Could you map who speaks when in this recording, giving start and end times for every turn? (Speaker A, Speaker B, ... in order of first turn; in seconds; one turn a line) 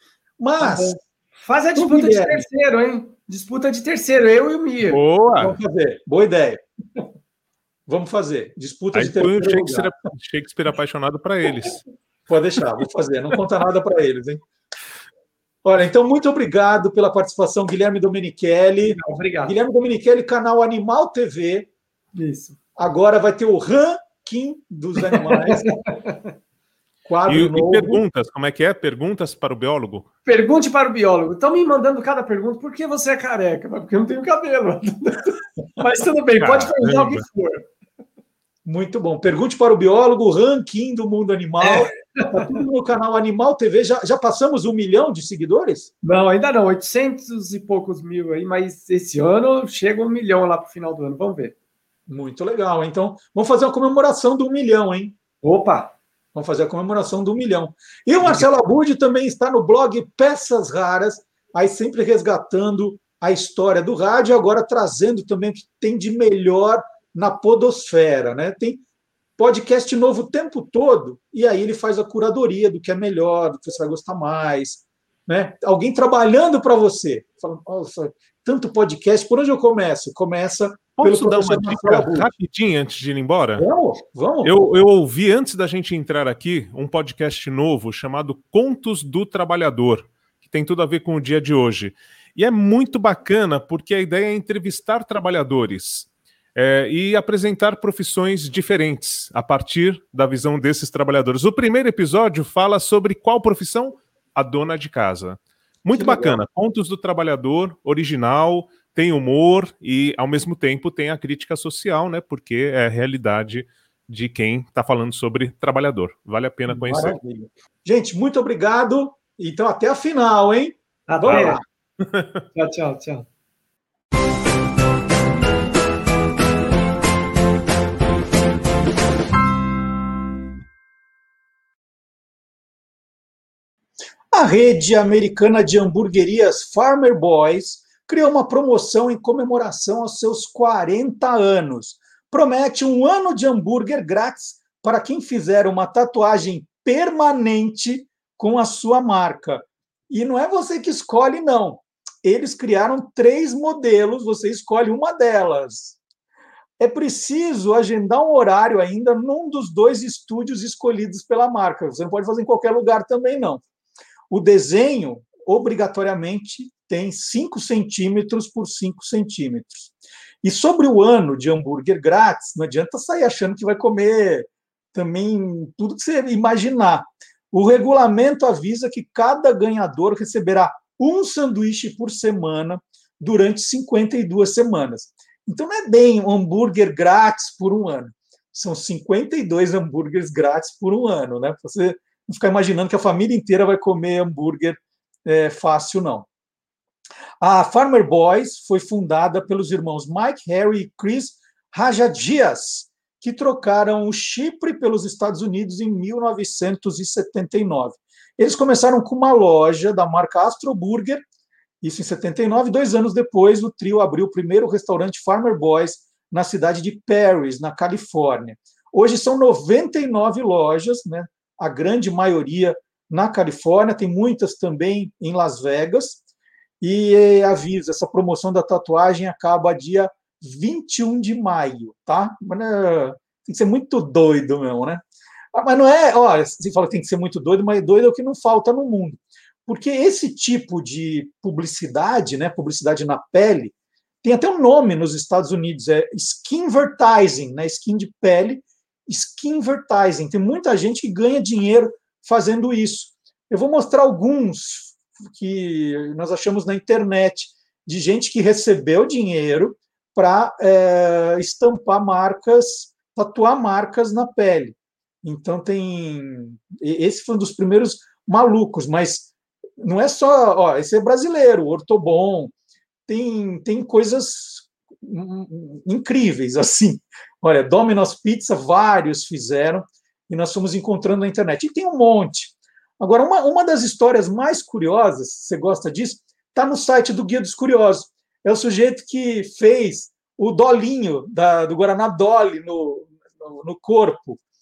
Speaker A: 0.4-1.0
Speaker B: 0.6-5.0
Speaker A: 1.8-2.5
Speaker C: 4.9-5.5
Speaker A: 5.4-6.6
Speaker A: 7.9-9.9
Speaker C: 8.9-11.8
Speaker A: 12.3-14.4
Speaker A: 15.6-21.7
Speaker B: 18.9-19.6
Speaker B: 22.1-22.6
Speaker A: 22.8-25.8
Speaker B: 25.1-26.1
Speaker A: 27.1-28.0
Speaker C: 27.3-30.1
Speaker B: 30.3-37.6
Speaker C: 36.4-37.2
Speaker A: 38.6-45.9
Speaker B: 41.6-42.5
Speaker B: 46.0-51.5
Speaker A: 52.1-55.1
Speaker B: 55.4-55.9
Speaker A: 56.3-68.8
Speaker A: 69.4-82.3
Speaker C: 80.9-83.6
Speaker A: 83.6-84.5
Speaker C: 84.4-117.2
Speaker A: 105.9-106.4
Speaker A: 116.7-121.6
Speaker B: 121.1-121.6
Speaker C: 121.3-121.6
Speaker B: 122.5-123.3
Speaker A: 134.3-156.0
Speaker A: 156.8-163.6
Speaker A: 164.3-196.3
Speaker A: 197.4-211.2
Speaker A: 211.8-226.2
Speaker A: 226.8-272.5
Speaker A: 273.1-294.4